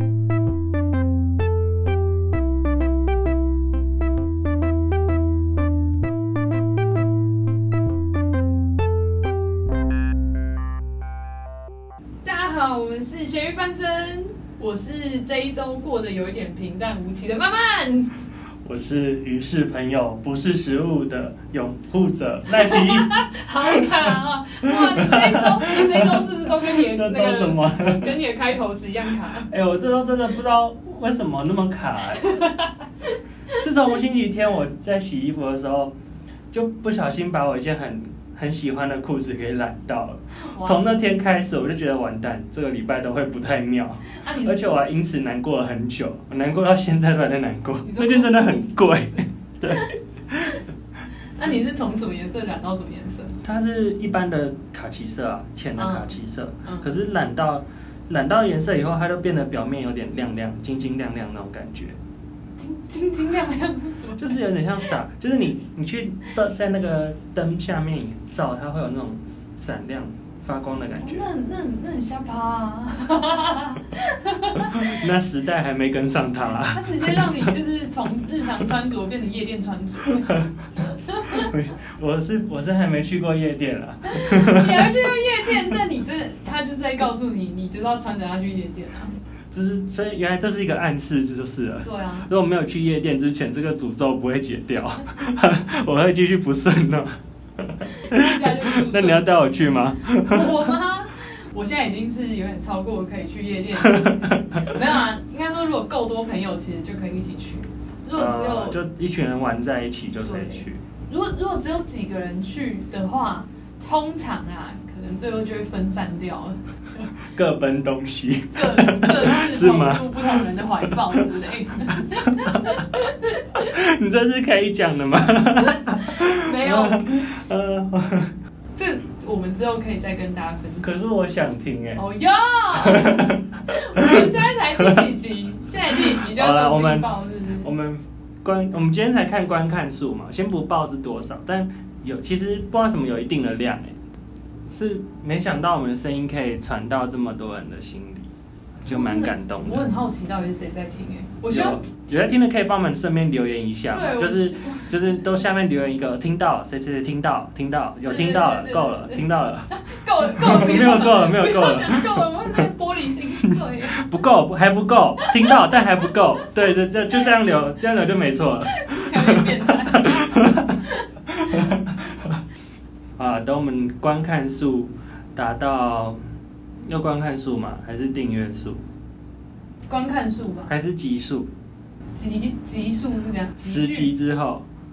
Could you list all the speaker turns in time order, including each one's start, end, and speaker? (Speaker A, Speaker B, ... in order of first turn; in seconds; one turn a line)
Speaker A: 12.2-18.1
Speaker B: 18.6-24.1
Speaker A: 22.5-29.5
Speaker B: 24.6-28.1
Speaker B: 29.3-32.3
Speaker A: 32.2-32.8
Speaker B: 33.6-35.9
Speaker B: 36.5-50.6
Speaker A: 40.4-40.8
Speaker A: 44.2-44.6
Speaker A: 47.8-48.7
Speaker A: 51.4-53.4
Speaker B: 53.4-62.0
Speaker A: 55.8-56.9
Speaker A: 62.6-64.4
Speaker B: 64.2-71.3
Speaker A: 71.0-75.1
Speaker B: 74.6-77.5
Speaker A: 76.7-81.5
Speaker B: 80.1-85.8
Speaker A: 84.0-89.2
Speaker B: 89.5-100.8
Speaker A: 91.8-92.3
Speaker A: 98.0-99.6
Speaker A: 100.1-108.8
Speaker B: 103.8-104.8
Speaker B: 108.2-110.8
Speaker A: 110.2-117.1
Speaker B: 117.2-121.2
Speaker A: 118.5-123.7
Speaker B: 121.9-123.0
Speaker B: 123.5-128.3
Speaker A: 125.9-127.2
Speaker A: 128.8-131.0
Speaker B: 130.8-132.0
Speaker A: 132.0-137.7
Speaker B: 132.7-135.1
Speaker B: 135.9-143.9
Speaker B: 144.7-148.3
Speaker B: 148.8-149.9
Speaker A: 148.9-151.9
Speaker B: 151.5-159.7
Speaker A: 153.9-155.2
Speaker A: 158.0-164.0
Speaker B: 160.2-162.7
Speaker B: 163.9-172.4
Speaker A: 165.2-166.4
Speaker A: 168.7-171.1
Speaker B: 173.2-176.2
Speaker B: 176.9-178.8
Speaker A: 179.9-180.7
Speaker B: 180.7-181.5
Speaker A: 182.2-184.1
Speaker B: 183.6-184.7